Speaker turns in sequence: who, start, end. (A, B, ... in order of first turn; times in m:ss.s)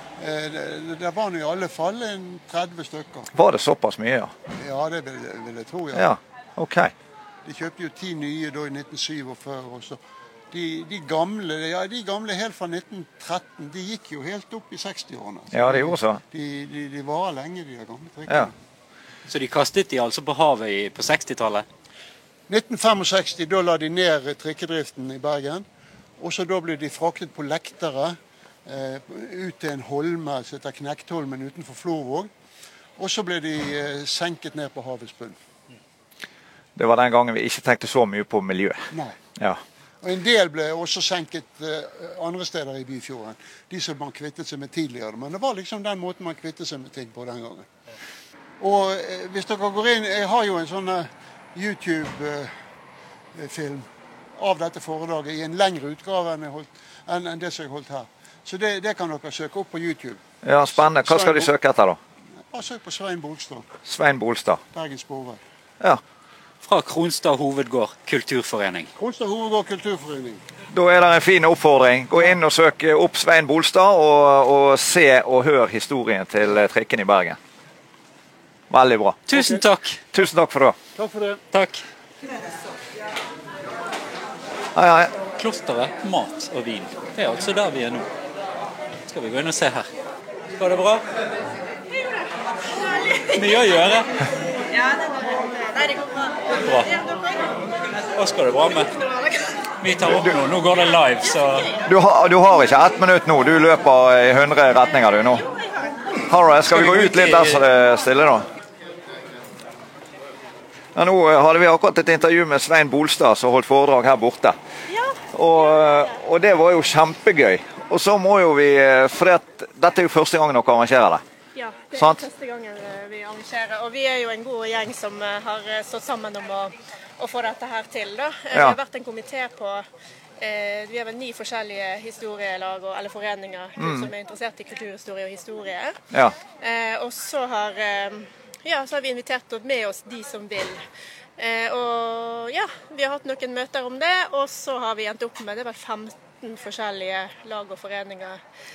0:00.2-0:03.3 A
0:03.3-0:04.3 B
0:04.6-0:06.1 A
0:05.9-0:06.9 B
0:07.4-0:10.0 A
0:10.5-0:18.5 A
0:15.5-0:16.2 B
0:19.3-0:21.6 C
0:22.5-0:25.6 A
0:26.2-0:32.3 A
0:33.0-0:35.4 A
0:36.8-0:39.6 B
0:38.9-0:39.2 A
0:40.0-0:47.7 A
0:48.6-0:52.5 A
0:53.3-1:01.5 A
1:00.4-1:02.0 B
1:02.5-1:03.7 A
1:03.8-1:04.6 B
1:04.7-1:05.4 A
1:06.6-1:08.9 C
1:09.0-1:10.4 A
1:10.7-1:17.4 B
1:18.7-1:19.6 B
1:19.3-1:20.0 C
1:20.1-1:20.8 B
1:21.0-1:21.4 A
1:21.5-1:21.8 C
1:24.7-1:25.1 B
1:25.4-1:28.1 C
1:29.1-1:29.9 C
1:30.6-1:31.0 C
1:32.8-1:33.2 D
1:33.3-1:34.2 C
1:34.8-1:36.1 D
1:36.6-1:36.9 C
1:37.0-1:37.4 D
1:38.1-1:38.9 C
1:39.8-1:41.7 C
1:40.0-1:40.3 B
1:41.8-1:45.4 B
1:46.2-1:48.5 B
1:46.7-1:47.6 C
1:50.9-1:54.6 B
1:54.9-1:55.2 D
1:55.3-2:01.2 B
1:55.7-1:56.0 D
2:01.5-2:09.8 D
2:10.4-2:15.9 D
2:13.8-2:14.1 B
2:16.6-2:20.8 D
2:21.4-2:28.4 D